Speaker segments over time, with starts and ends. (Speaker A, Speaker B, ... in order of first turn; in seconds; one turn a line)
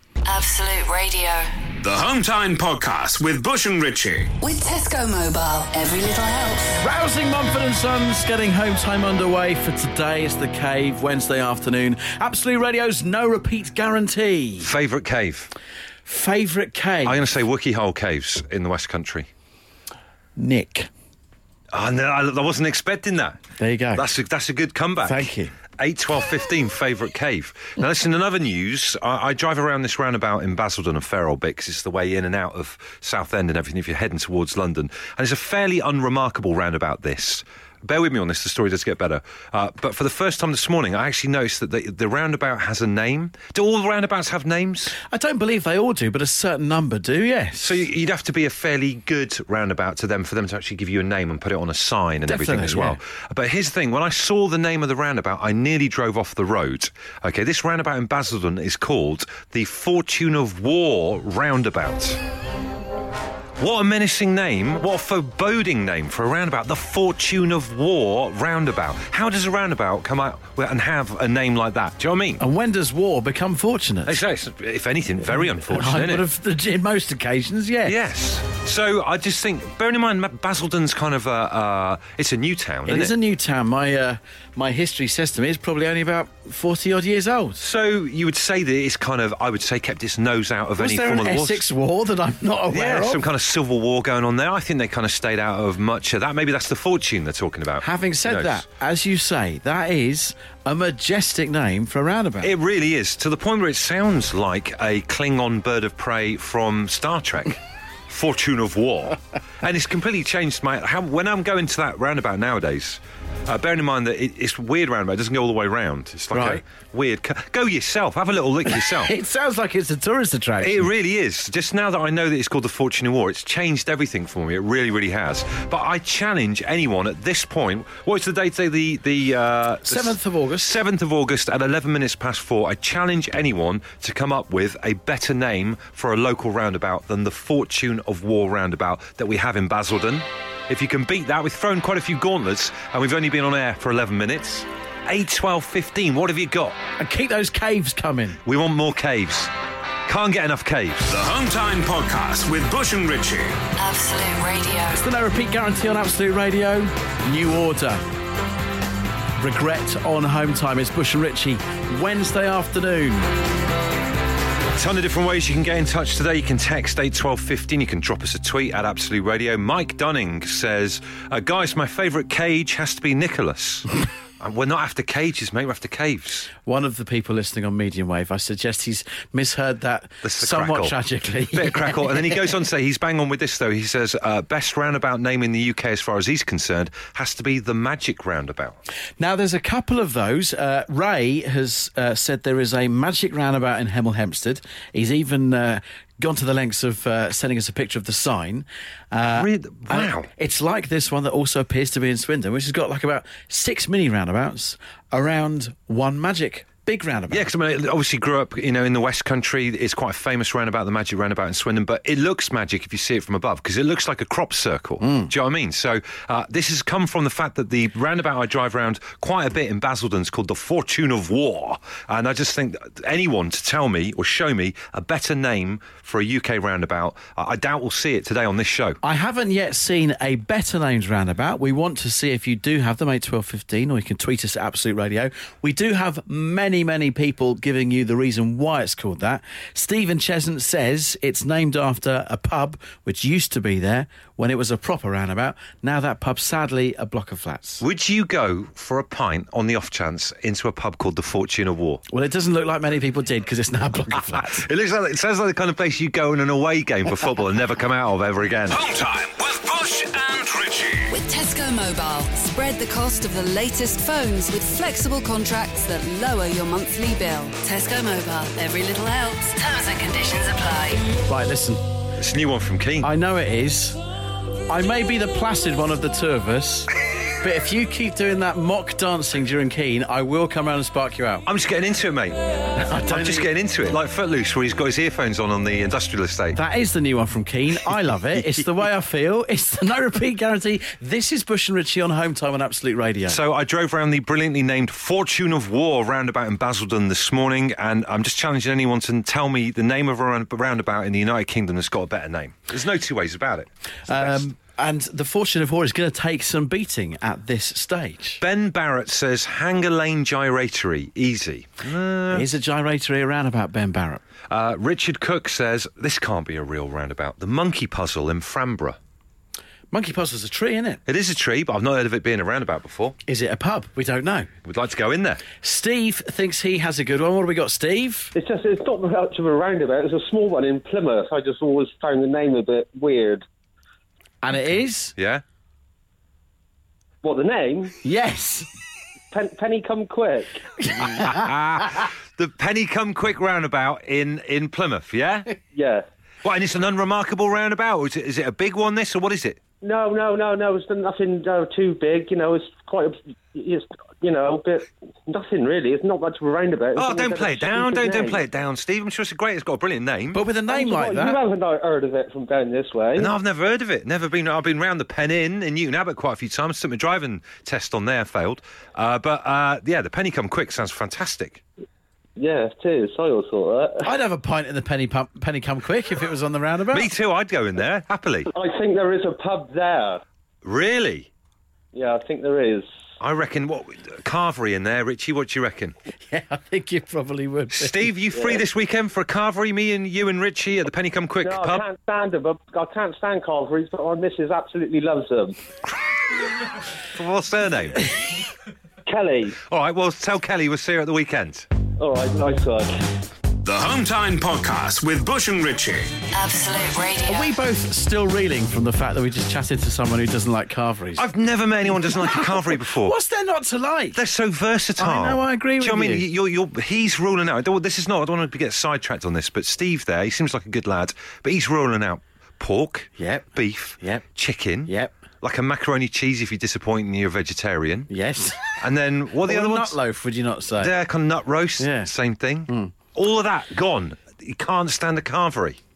Speaker A: 0.2-1.5
Speaker B: 1.8-4.3
Speaker A: 4.4-6.8
Speaker C: 6.8-14.7
Speaker D: 14.6-15.5
Speaker C: 16.1-17.2
Speaker D: 17.0-19.3
Speaker C: 20.4-20.9
Speaker D: 21.7-23.4
Speaker C: 23.6-24.1
Speaker D: 23.9-45.0
Speaker C: 25.0-25.5
Speaker C: 45.0-47.9
Speaker D: 47.6-62.2
Speaker C: 52.3-53.0
Speaker D: 63.6-72.4
Speaker C: 72.4-74.2
Speaker D: 74.1-76.2
Speaker C: 75.4-78.0
Speaker D: 77.8-83.1
Speaker C: 82.9-87.6
Speaker D: 87.6-91.6
Speaker C: 90.8-93.2
Speaker D: 92.7-98.6
Speaker C: 97.8-102.5
Speaker D: 102.4-119.1
Speaker C: 116.3-116.6
Speaker C: 118.7-120.9
Speaker D: 120.6-146.8
Speaker C: 129.9-130.8
Speaker C: 147.0-148.4
Speaker D: 148.4-149.5
Speaker D: 150.1-151.1
Speaker B: 151.1-153.6
Speaker A: 153.8-155.0
Speaker C: 154.9-158.1
Speaker C: 159.4-163.3
Speaker D: 164.7-173.9
Speaker D: 174.4-176.5
Speaker C: 176.6-182.5
Speaker D: 180.2-181.0
Speaker D: 181.5-188.8
Speaker C: 189.2-207.5
Speaker D: 199.3-200.3
Speaker D: 207.3-229.0
Speaker C: 215.0-215.3
Speaker C: 229.0-247.8
Speaker D: 247.8-252.0
Speaker C: 252.1-254.7
Speaker D: 254.3-258.8
Speaker B: 258.7-261.1
Speaker A: 261.1-271.2
Speaker C: 271.3-271.8
Speaker D: 272.2-273.1
Speaker C: 273.0-274.0
Speaker C: 274.7-276.9
Speaker C: 277.4-281.4
Speaker D: 281.5-282.4
Speaker C: 282.8-283.5
Speaker D: 283.1-286.6
Speaker C: 286.6-293.4
Speaker D: 288.4-288.6
Speaker D: 293.3-304.4
Speaker C: 304.1-308.4
Speaker D: 308.4-312.5
Speaker C: 312.3-314.2
Speaker D: 314.5-319.0
Speaker C: 319.9-321.0
Speaker D: 321.1-323.2
Speaker C: 323.3-324.5
Speaker D: 324.6-325.4
Speaker C: 325.6-328.3
Speaker E: 328.3-333.4
Speaker C: 334.4-335.1
Speaker D: 335.2-335.4
Speaker E: 337.2-338.0
Speaker C: 338.0-338.7
Speaker E: 339.3-340.6
Speaker C: 340.8-341.5
Speaker D: 341.0-345.5
Speaker E: 345.7-346.1
Speaker D: 346.4-349.6
Speaker E: 349.8-358.4
Speaker D: 357.0-360.4
Speaker C: 360.3-361.4
Speaker E: 360.7-363.3
Speaker D: 363.2-371.6
Speaker E: 372.4-374.1
Speaker C: 374.0-377.1
Speaker D: 376.9-378.5
Speaker E: 378.5-380.2
Speaker D: 380.6-381.3
Speaker E: 381.9-382.9
Speaker D: 383.2-385.9
Speaker C: 386.2-388.1
Speaker D: 387.7-391.9
Speaker E: 388.4-388.6
Speaker E: 391.4-395.6
Speaker D: 397.1-398.1
Speaker E: 399.1-399.6
Speaker D: 399.7-401.7
Speaker E: 402.0-402.9
Speaker B: 403.6-406.1
Speaker A: 406.3-407.5
Speaker C: 407.3-411.3
Speaker D: 411.2-413.2
Speaker C: 412.1-414.2
Speaker D: 414.1-428.1
Speaker C: 415.0-416.3
Speaker C: 423.2-423.5
Speaker C: 424.9-425.1
Speaker C: 428.1-428.6
Speaker D: 428.8-430.0
Speaker C: 429.4-430.9
Speaker D: 430.8-435.8
Speaker C: 431.8-432.1